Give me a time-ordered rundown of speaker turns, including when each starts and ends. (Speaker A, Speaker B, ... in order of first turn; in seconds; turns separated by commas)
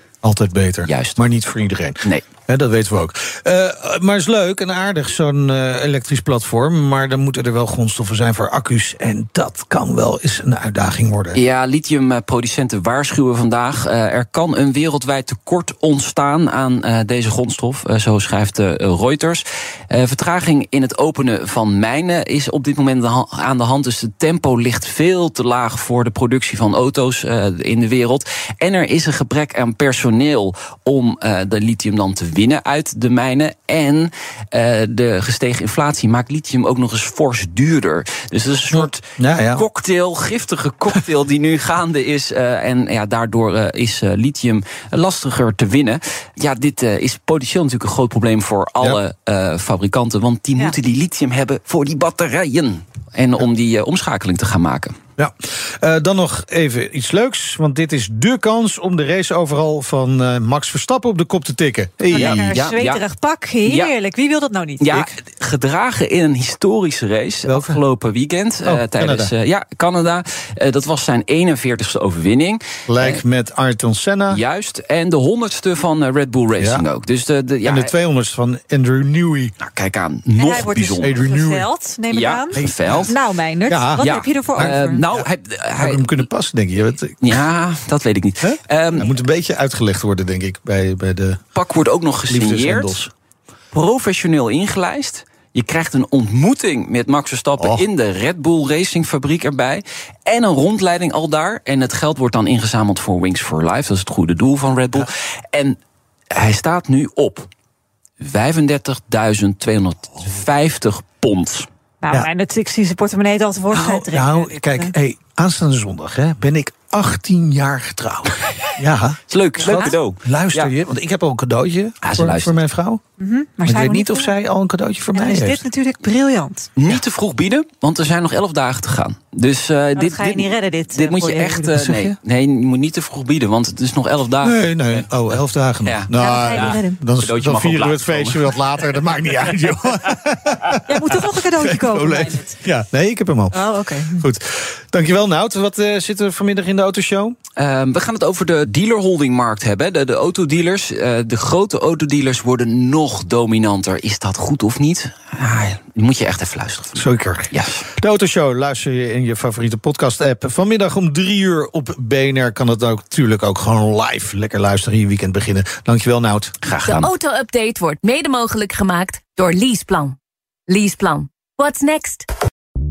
Speaker A: 0.2-11.4, Speaker B: 0.8-1.2, Speaker B: 11.3-55.0, Speaker A: 38.7-39.6, Speaker A: 55.2-62.5, Speaker C: 62.1-65.0, Speaker B: 62.1-63.0, Speaker B: 63.6-63.9, Speaker B: 64.8-73.2, Speaker A: 67.5-67.8, Speaker A: 68.6-69.3, Speaker A: 72.9-74.4, Speaker B: 74.3-77.9, Speaker A: 76.6-76.8, Speaker A: 77.6-79.5, Speaker B: 79.6-81.2, Speaker C: 80.3-85.0, Speaker A: 81.0-81.7, Speaker B: 82.1-83.2, Speaker A: 82.5-85.3, Speaker B: 84.0-86.2, Speaker A: 85.8-87.4, Speaker B: 87.2-89.1, Speaker A: 88.4-91.4, Speaker B: 91.5-93.1, Speaker A: 92.3-93.1, Speaker B: 93.7-105.8, Speaker A: 97.6-97.8, Speaker B: 106.3-107.5, Speaker B: 108.2-111.7, Speaker C: 112.0-114.9, Speaker A: 113.7-123.0, Speaker B: 119.3-120.7, Speaker C: 119.6-120.0, Speaker B: 122.0-122.6, Speaker C: 123.2-124.3, Speaker A: 123.7-125.6, Speaker C: 125.1-126.7, Speaker B: 126.8-138.9, Speaker C: 129.9-132.1, Speaker A: 134.4-147.3, Speaker C: 136.2-137.0, Speaker C: 140.9-142.6, Speaker C: 143.5-144.2, Speaker B: 147.6-157.8, Speaker A: 156.9-166.5, Speaker B: 166.6-167.1, Speaker D: 166.8-170.2, Speaker D: 170.7-172.2